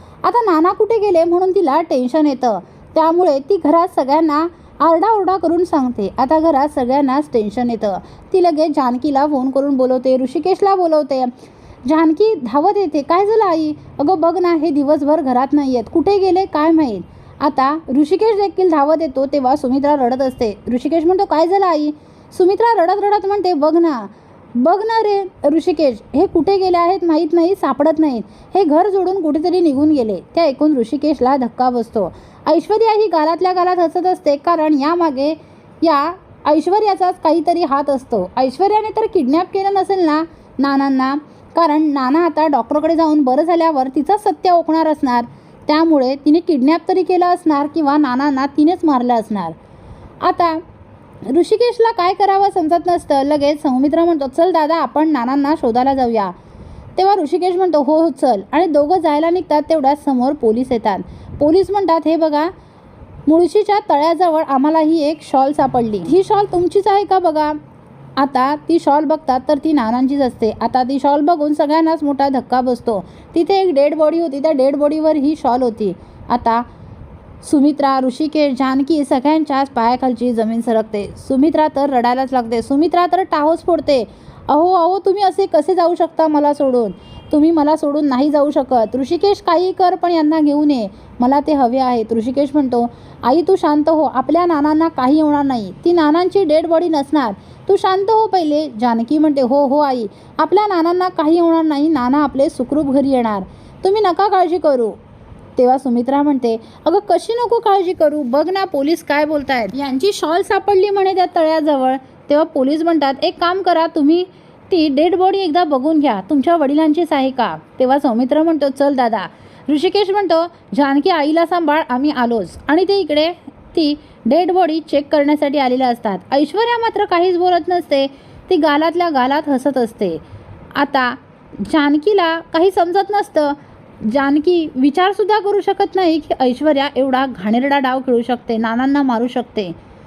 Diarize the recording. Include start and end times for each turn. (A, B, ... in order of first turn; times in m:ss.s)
0:00.2-0:11.3 A
0:11.8-0:49.6 A
0:50.2-0:50.6 A
0:51.2-0:56.3 A
0:57.0-1:02.5 A
1:03.3-1:07.6 A
1:08.2-1:16.7 A
1:17.4-1:45.0 A
1:45.6-2:10.2 A
2:10.8-2:19.8 A